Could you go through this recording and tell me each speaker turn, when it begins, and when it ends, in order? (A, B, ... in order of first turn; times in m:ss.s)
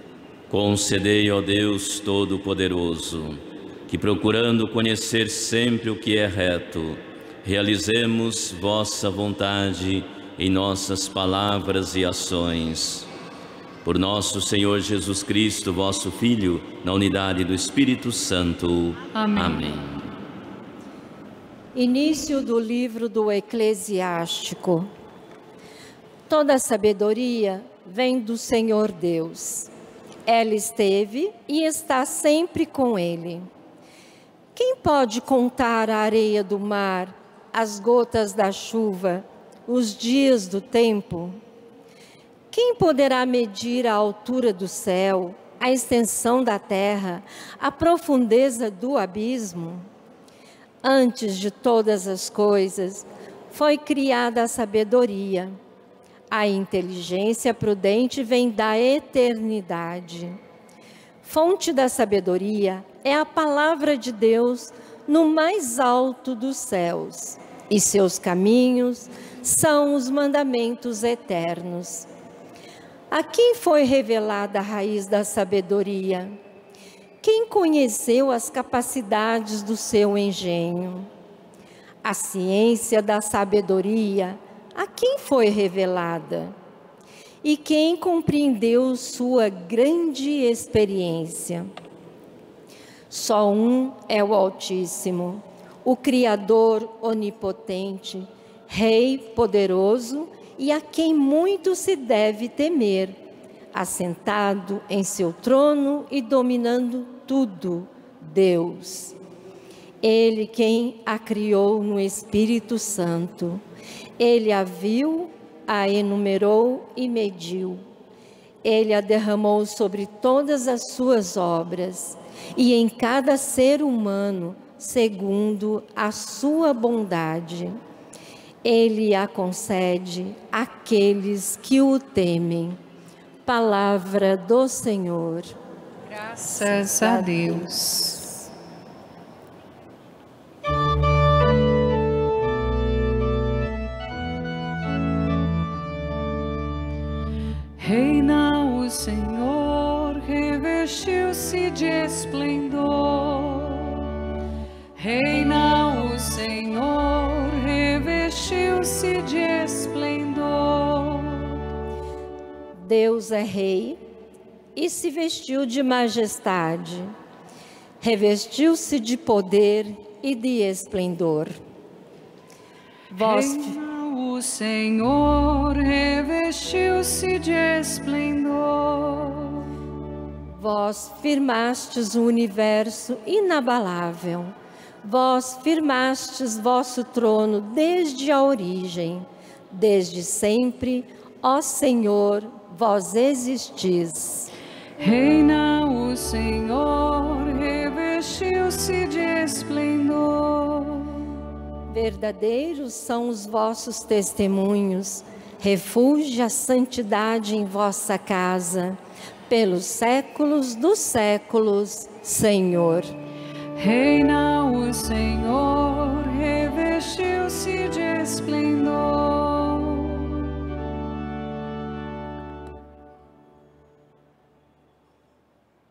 0:00.5-0:13.1 A
0:13.8-0:20.1 A
0:19.1-0:19.8 B
0:21.7-0:24.9 C
0:26.3-0:29.7 C
0:30.2-0:33.5 C
0:34.6-0:41.4 C
0:42.5-0:49.9 C
0:50.8-0:55.6 C
0:56.3-1:00.4 C
1:01.2-1:12.1 C
1:13.1-1:16.4 C
1:17.2-1:21.1 C
1:22.0-1:26.5 C
1:27.4-1:31.7 C
1:33.1-1:43.2 C
1:43.7-1:49.2 C
1:50.0-1:53.6 C
1:54.2-1:57.8 C
1:58.6-2:07.8 C
2:08.6-2:12.8 C
2:13.4-2:15.5 C
2:16.1-2:18.4 B
2:16.6-2:17.6 C
2:27.8-2:34.1 B
2:35.0-2:41.6 B
2:42.8-2:44.0 C
2:44.8-2:47.1 C
2:48.0-2:51.5 C
2:53.1-2:53.8 C
2:53.2-2:59.6 B
3:00.5-3:14.5 C
3:15.0-3:21.2 B
3:21.9-3:33.1 C
3:33.8-3:40.4 B